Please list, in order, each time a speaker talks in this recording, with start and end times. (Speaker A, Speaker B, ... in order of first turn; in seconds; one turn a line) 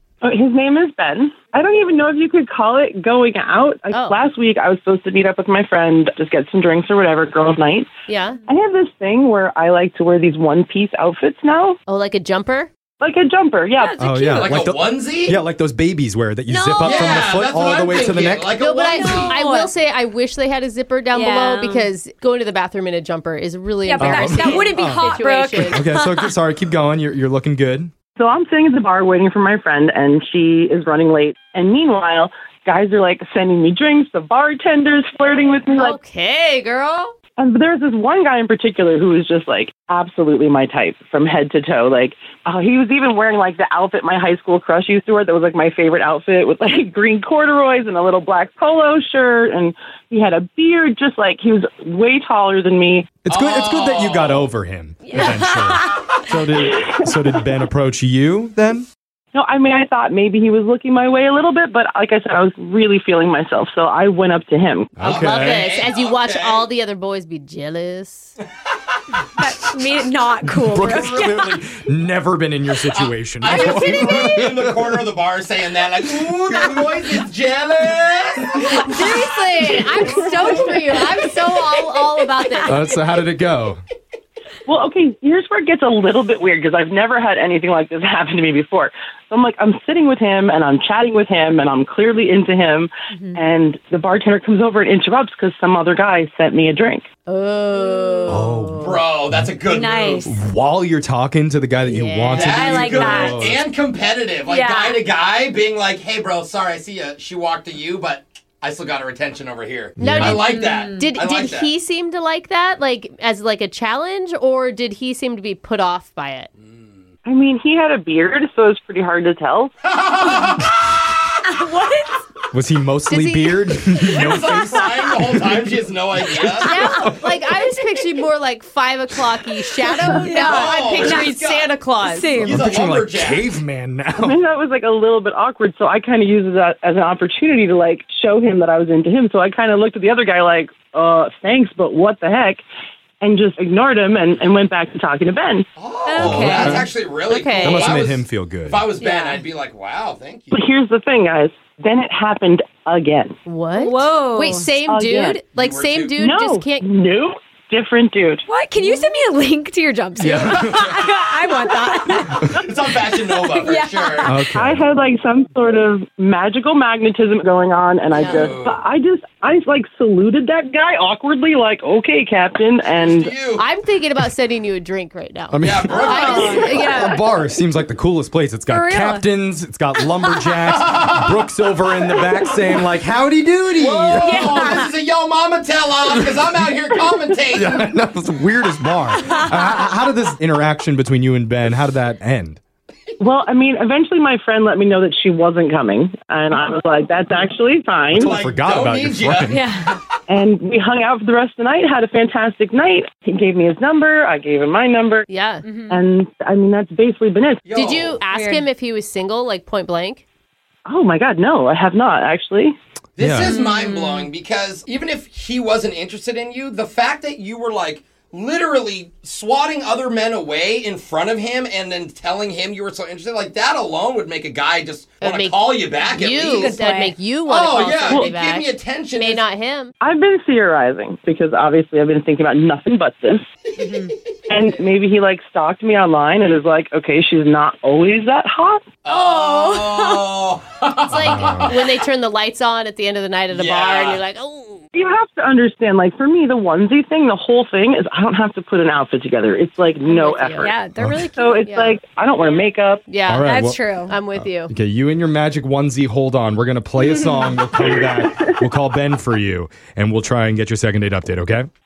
Speaker A: 0.2-7.9
Speaker B: 3.9-4.2
Speaker B: 8.1-8.4
Speaker A: 8.5-11.8
Speaker B: 11.9-12.7
Speaker A: 13.0-14.0
Speaker C: 13.8-14.7
Speaker D: 14.0-18.5
Speaker E: 14.3-15.4
Speaker C: 16.5-17.3
Speaker E: 16.8-19.4
Speaker B: 18.6-25.9
Speaker C: 18.9-19.7
Speaker C: 21.1-21.9
Speaker C: 23.8-26.3
Speaker D: 24.0-27.9
Speaker A: 28.2-36.0
Speaker B: 35.8-37.1
Speaker A: 37.4-53.2
Speaker D: 53.2-58.9
Speaker E: 53.3-54.5
Speaker C: 55.0-56.1
Speaker A: 56.6-57.0
Speaker A: 59.3-65.0
Speaker D: 65.0-65.7
Speaker E: 65.0-66.7
Speaker B: 65.1-68.3
Speaker C: 69.4-71.4
Speaker D: 70.6-75.0
Speaker E: 72.9-79.1
Speaker B: 73.6-74.0
Speaker B: 78.6-82.9
Speaker D: 82.7-83.8
Speaker A: 84.7-97.1
Speaker B: 93.1-93.4
Speaker B: 97.3-99.0
Speaker C: 97.8-98.4
Speaker D: 98.3-99.5
Speaker E: 98.7-100.3
Speaker C: 99.7-100.3
Speaker D: 100.2-103.6
Speaker B: 101.8-102.6
Speaker C: 102.3-103.4
Speaker E: 102.4-111.7
Speaker C: 104.5-105.0
Speaker D: 110.0-110.4
Speaker B: 110.0-116.5
Speaker C: 110.4-111.1
Speaker E: 116.6-116.9
Speaker A: 117.2-119.8
Speaker E: 119.8-120.8
Speaker C: 121.5-122.1
Speaker D: 122.5-125.6
Speaker B: 123.1-124.0
Speaker E: 124.1-127.1
Speaker B: 126.6-132.3
Speaker C: 130.1-131.4
Speaker E: 130.4-131.7
Speaker C: 132.0-132.6
Speaker E: 132.4-133.5
Speaker D: 132.4-134.4
Speaker A: 134.2-142.6
Speaker A: 143.2-145.7
Speaker E: 144.3-144.7
Speaker E: 145.8-150.7
Speaker C: 146.1-146.9
Speaker D: 146.2-146.9
Speaker B: 147.3-148.0
Speaker D: 147.6-148.9
Speaker A: 150.5-153.4
Speaker B: 153.4-156.9
Speaker C: 153.8-154.7
Speaker A: 154.8-155.4
Speaker E: 155.5-156.2
Speaker A: 156.2-158.5
Speaker C: 158.5-162.5
Speaker D: 160.2-161.0
Speaker E: 162.5-164.4
Speaker C: 163.2-164.3
Speaker D: 164.2-164.8
Speaker A: 164.4-173.3
Speaker E: 168.1-168.8
Speaker B: 168.1-168.5
Speaker E: 172.9-173.6
Speaker B: 173.6-177.2
Speaker D: 175.5-184.6
Speaker E: 175.6-176.8
Speaker C: 176.0-177.2
Speaker C: 178.7-179.3
Speaker E: 180.7-181.4
Speaker E: 183.7-187.9
Speaker C: 184.2-184.9
Speaker D: 186.1-186.4
Speaker D: 187.5-192.6
Speaker C: 189.2-189.5
Speaker A: 193.2-198.3
Speaker D: 198.1-199.6
Speaker E: 198.2-199.9
Speaker C: 199.5-200.0
Speaker A: 200.3-205.3
Speaker B: 205.3-205.7
Speaker C: 205.6-206.0
Speaker A: 205.9-207.7
Speaker E: 207.7-208.2
Speaker B: 207.7-210.2
Speaker C: 208.3-208.7
Speaker A: 210.9-212.8
Speaker E: 213.2-226.7
Speaker D: 213.2-213.5
Speaker C: 213.4-214.3
Speaker B: 225.2-229.9
Speaker C: 226.5-227.2
Speaker E: 227.5-229.5
Speaker A: 228.1-228.3
Speaker A: 230.0-233.5
Speaker C: 233.8-234.1
Speaker A: 234.5-239.0
Speaker E: 239.0-242.0
Speaker C: 239.1-240.3
Speaker B: 241.1-244.9
Speaker D: 241.1-241.7
Speaker E: 243.5-244.2
Speaker A: 244.9-250.7
Speaker B: 250.0-250.7
Speaker C: 250.6-251.7
Speaker D: 251.0-251.3
Speaker A: 251.4-253.1
Speaker B: 251.6-252.0
Speaker B: 253.1-254.7
Speaker D: 253.3-261.7
Speaker C: 253.4-254.1
Speaker C: 257.0-257.6
Speaker A: 257.8-258.5